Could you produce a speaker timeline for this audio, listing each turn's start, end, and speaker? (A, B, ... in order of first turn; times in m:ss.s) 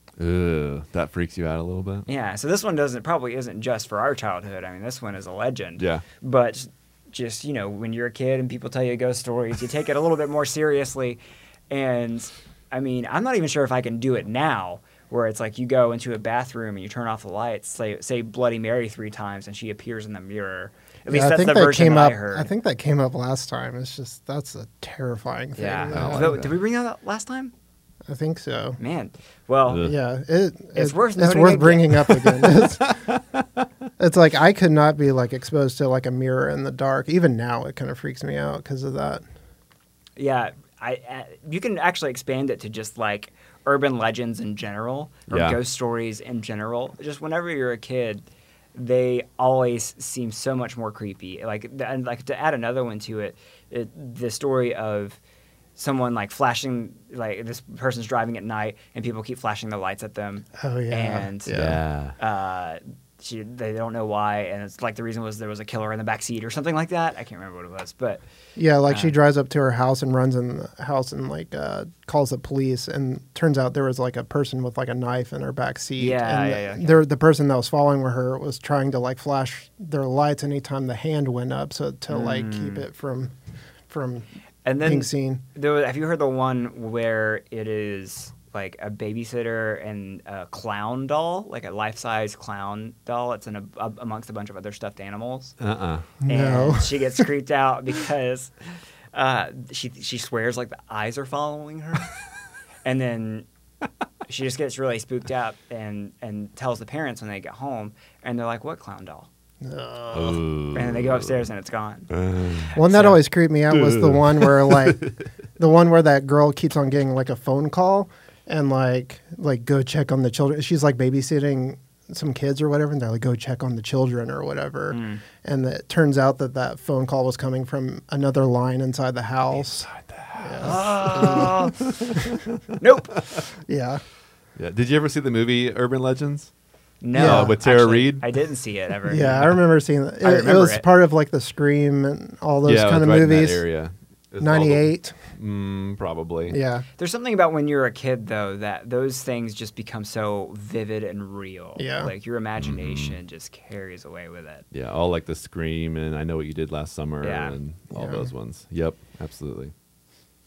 0:00.2-0:02.1 A
0:02.1-0:22.5 B
0:05.8-0:06.0 A
0:21.1-0:26.4 C
0:25.6-0:27.5 B
0:25.9-0:26.5 A
0:28.1-0:28.8 C
0:28.8-0:29.9 B
0:29.7-0:29.9 A
0:29.8-0:33.0 C
0:30.8-0:32.2 B
0:32.8-0:33.4 A
0:34.0-0:39.2 C
0:40.2-0:48.2 B
0:45.3-0:45.6 A
0:48.8-0:55.2 B
0:55.8-1:01.6 B
1:00.6-1:01.8 C
1:01.5-1:02.2 A
1:02.2-1:08.2 B
1:08.6-1:23.3 C
1:08.9-1:09.1 B
1:16.0-1:17.0 B
1:22.1-1:22.9 B
1:23.9-1:24.3 C
1:24.6-1:35.6 B
1:24.8-1:25.4 C
1:35.6-1:36.1 A
1:36.2-1:37.2 C
1:36.3-1:42.1 B
1:42.8-1:43.5 B
1:44.3-1:49.3 B
1:49.6-1:50.4 C
1:50.1-1:51.4 A
1:50.7-1:52.1 B
1:52.1-1:52.7 A
1:52.6-1:53.2 B
1:52.8-2:11.6 C
1:53.7-1:55.1 A
2:04.9-2:05.2 B
2:09.6-2:12.6 A
2:10.6-2:11.8 B
2:12.8-2:13.2 B
2:13.7-2:14.0 C
2:14.6-2:16.5 A
2:17.0-2:19.5 B
2:17.1-2:18.3 A
2:17.2-2:17.6 C
2:19.1-2:23.6 C
2:19.2-2:19.5 A
2:20.2-2:20.8 B
2:22.6-2:26.6 A
2:24.4-2:25.2 C
2:26.5-2:26.8 C
2:27.0-2:34.6 B
2:31.8-2:32.1 C
2:32.6-2:33.2 A
2:34.7-2:39.7 A
2:37.2-2:37.6 B
2:37.9-2:38.3 C